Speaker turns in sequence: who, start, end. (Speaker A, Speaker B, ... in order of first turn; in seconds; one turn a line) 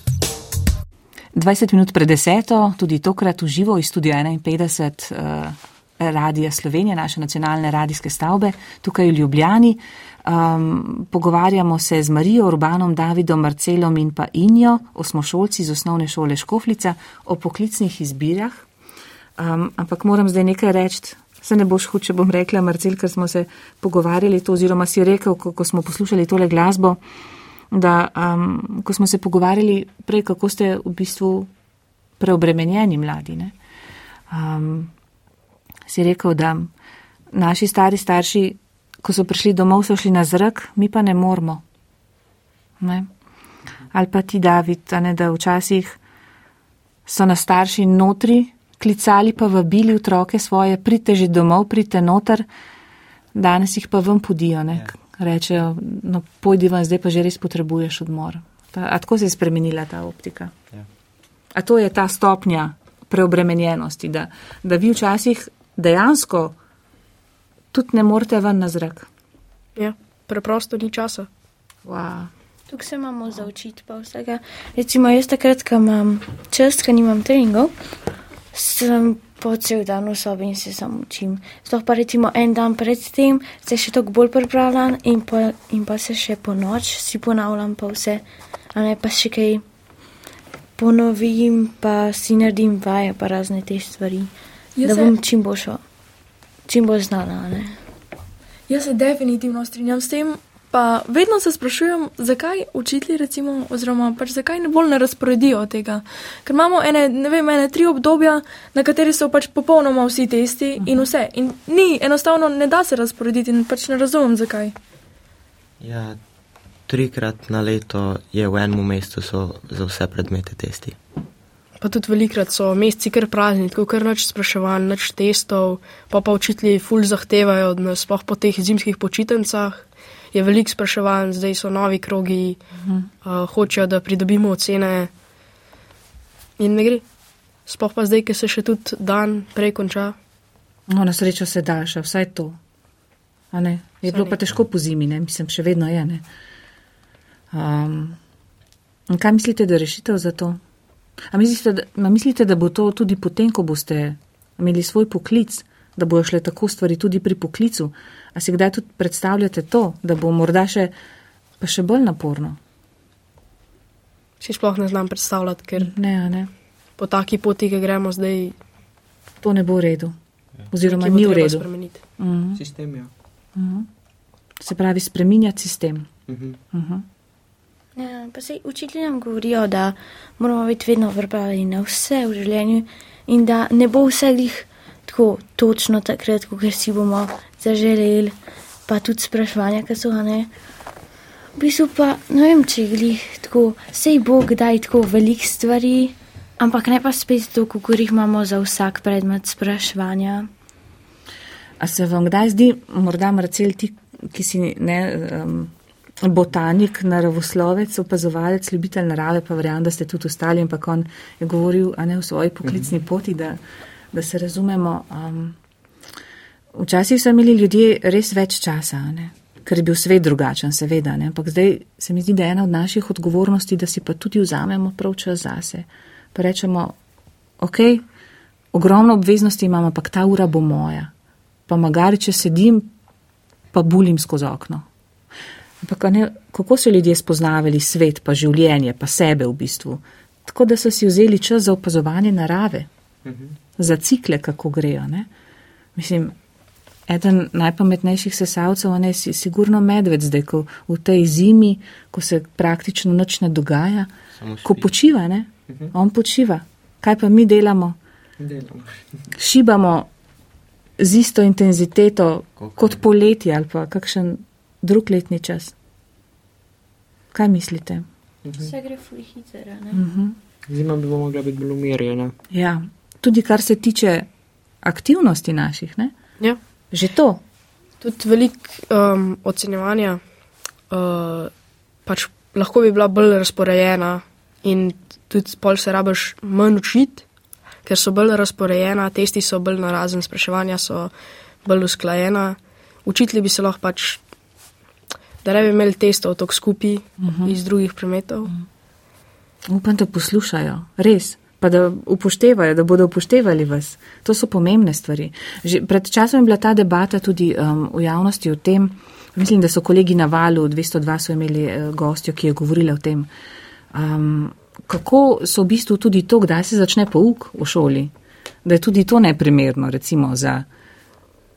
Speaker A: 1.3-18.7
Speaker A: 19.4-27.0
Speaker A: 27.7-31.5
Speaker A: 32.2-33.6
Speaker A: 34.3-34.9
Speaker A: 35.9-36.7
Speaker A: 37.3-41.6
Speaker A: 42.8-43.1
Speaker A: 43.9-46.0
Speaker A: 47.1-52.5
Speaker A: 53.3-60.5
Speaker A: 61.5-66.6
Speaker A: 67.7-69.1
Speaker B: 69.8-71.3
Speaker A: 71.8-72.3
Speaker C: 72.7-77.8
Speaker C: 78.5-89.6
Speaker C: 90.8-94.3
Speaker D: 94.8-95.1
Speaker C: 94.8-95.8
Speaker C: 96.7-97.8
Speaker D: 98.7-114.7
Speaker E: 115.8-116.2
Speaker E: 116.9-121.0
Speaker B: 121.8-132.6
Speaker A: 132.8-133.1
Speaker B: 133.2-135.1
Speaker B: 136.6-137.1
Speaker B: 137.7-140.2
Speaker A: 140.9-142.6
Speaker A: 143.5-146.2
Speaker A: 147.5-148.2
Speaker A: 149.1-150.6
Speaker A: 151.3-160.9
Speaker A: 161.6-162.6
Speaker B: 164.4-165.9
Speaker A: 165.8-166.5
Speaker B: 167.0-168.6
Speaker A: 169.4-170.2
Speaker A: 170.7-171.7
Speaker B: 170.8-172.0
Speaker A: 172.2-172.6
Speaker F: 172.6-173.1
Speaker A: 173.6-173.9
Speaker A: 174.6-176.1
Speaker F: 176.3-176.6
Speaker A: 176.7-177.1
Speaker C: 178.0-188.4
Speaker C: 188.9-190.5
Speaker C: 191.6-200.5
Speaker A: 201.8-213.6
Speaker A: 214.1-215.6
Speaker A: 216.8-227.0
Speaker A: 227.6-228.0
Speaker A: 228.7-231.1
Speaker A: 231.7-232.9
Speaker A: 233.7-234.9
Speaker A: 235.8-242.9
Speaker F: 243.2-243.5
Speaker A: 243.8-245.3
Speaker A: 246.0-246.3
Speaker A: 247.1-254.1
Speaker E: 254.4-254.9
Speaker A: 254.6-258.0
Speaker F: 258.4-259.0
Speaker A: 259.4-260.1
Speaker A: 261.0-265.7
Speaker E: 262.6-263.0
Speaker A: 267.3-268.1
Speaker F: 268.4-268.7
Speaker C: 268.6-270.0
Speaker A: 269.9-270.4
Speaker F: 270.7-272.3
Speaker A: 272.5-274.3
Speaker A: 274.8-276.2
Speaker A: 276.9-277.4
Speaker B: 278.0-280.2
Speaker B: 280.9-281.5
Speaker B: 282.1-287.2
Speaker B: 287.8-291.1
Speaker B: 291.6-294.2
Speaker B: 295.4-298.5
Speaker A: 297.2-297.6
Speaker A: 299.7-313.3
Speaker A: 313.9-318.1
Speaker A: 318.6-320.7